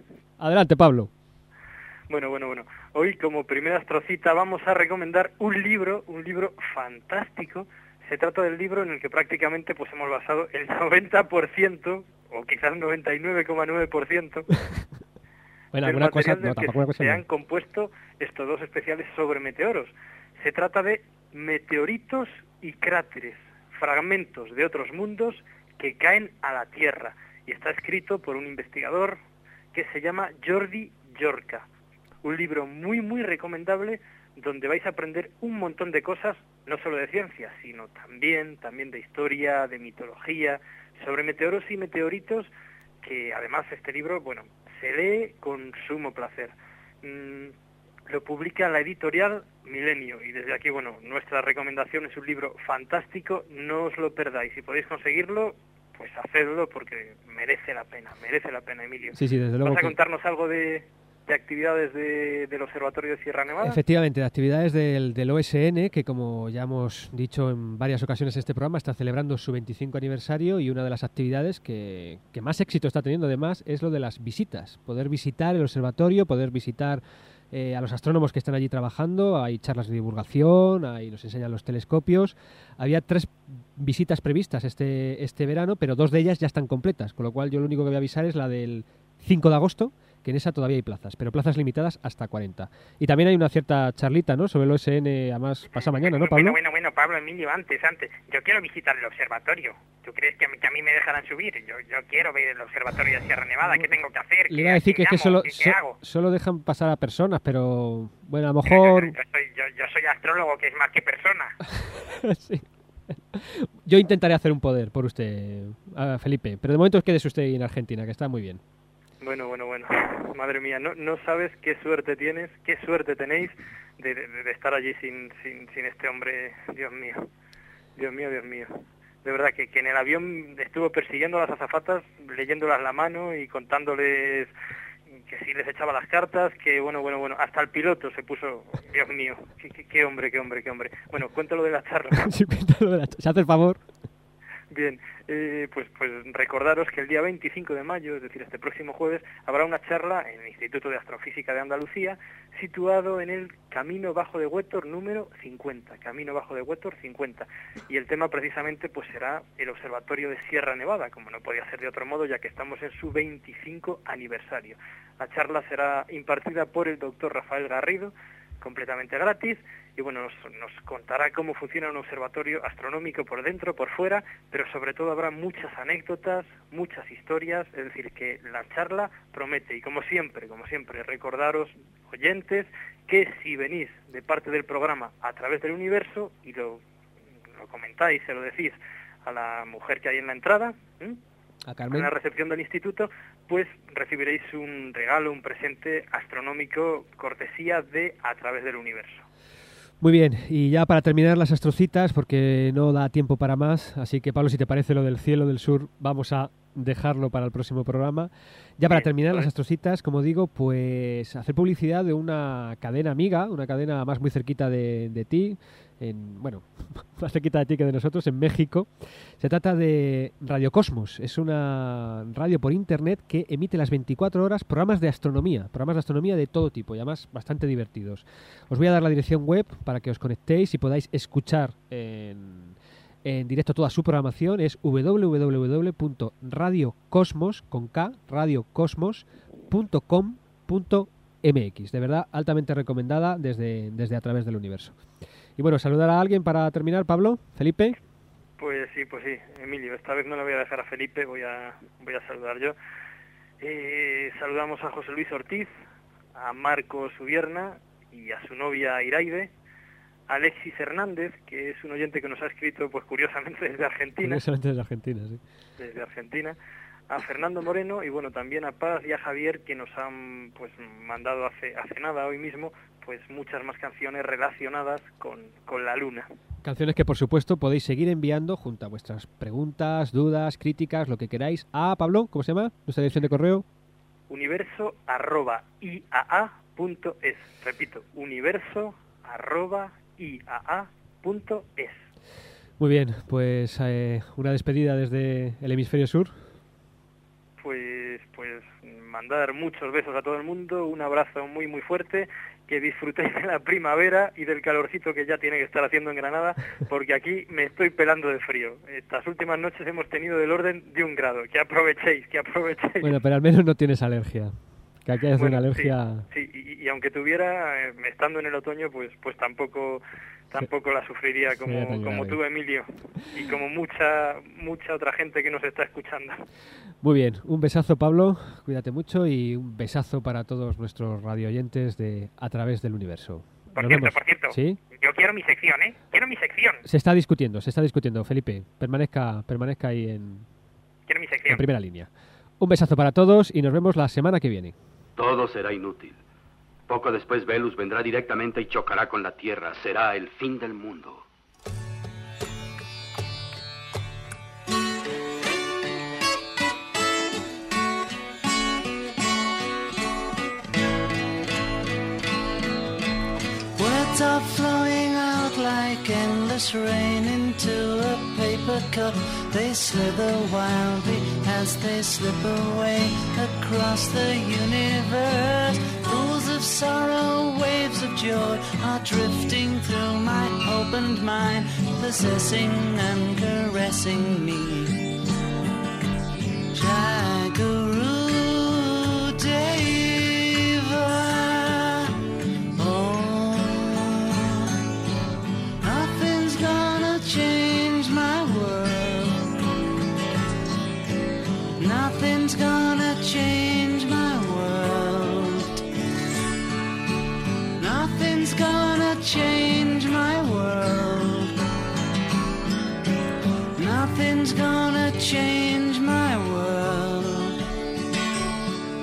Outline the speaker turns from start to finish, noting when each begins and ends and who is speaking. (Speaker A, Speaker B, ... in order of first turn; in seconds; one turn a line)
Speaker A: 0.4-1.1
Speaker B: 2.1-14.5
Speaker A: 15.7-17.2
Speaker B: 15.8-29.2
Speaker B: 29.7-31.6
Speaker B: 32.2-42.5
Speaker B: 43.0-47.5
Speaker B: 48.1-63.8
Speaker A: 59.1-60.0
Speaker A: 63.6-96.6
Speaker C: 95.7-106.0
Speaker A: 104.5-109.2
Speaker C: 108.7-111.5
Speaker A: 111.7-112.7
Speaker A: 113.3-118.6
Speaker B: 119.2-127.2
Speaker B: 128.0-128.7
Speaker B: 129.2-134.5
Speaker B: 135.1-142.3
Speaker A: 142.1-143.8
Speaker B: 144.7-186.8
Speaker B: 187.6-191.2
Speaker A: 191.7-192.1
Speaker B: 191.9-199.2
Speaker A: 200.0-244.9
Speaker B: 208.9-209.5
Speaker A: 245.6-248.0
Speaker B: 248.6-252.7
Speaker B: 253.6-255.7
Speaker B: 256.3-259.5
Speaker B: 260.3-264.4
Speaker A: 264.2-265.4
Speaker B: 265.8-266.6
Speaker B: 267.1-276.3
Speaker A: 276.6-283.6
Speaker B: 284.3-292.0
Speaker A: 292.8-296.4
Speaker B: 297.6-313.1
Speaker A: 313.0-316.2
Speaker B: 315.4-326.4
Speaker A: 321.6-322.4
Speaker A: 327.0-334.8
Speaker C: 333.7-336.8
Speaker A: 336.8-340.5
Speaker C: 341.1-341.6
Speaker A: 341.5-344.8
Speaker D: 345.1-346.2
Speaker D: 346.9-351.2
Speaker E: 363.8-385.0
Speaker E: 386.7-392.1
Speaker E: 392.8-394.7
Speaker E: 395.8-399.5
Speaker E: 401.8-405.8
Speaker E: 407.8-411.5
Speaker E: 413.8-417.6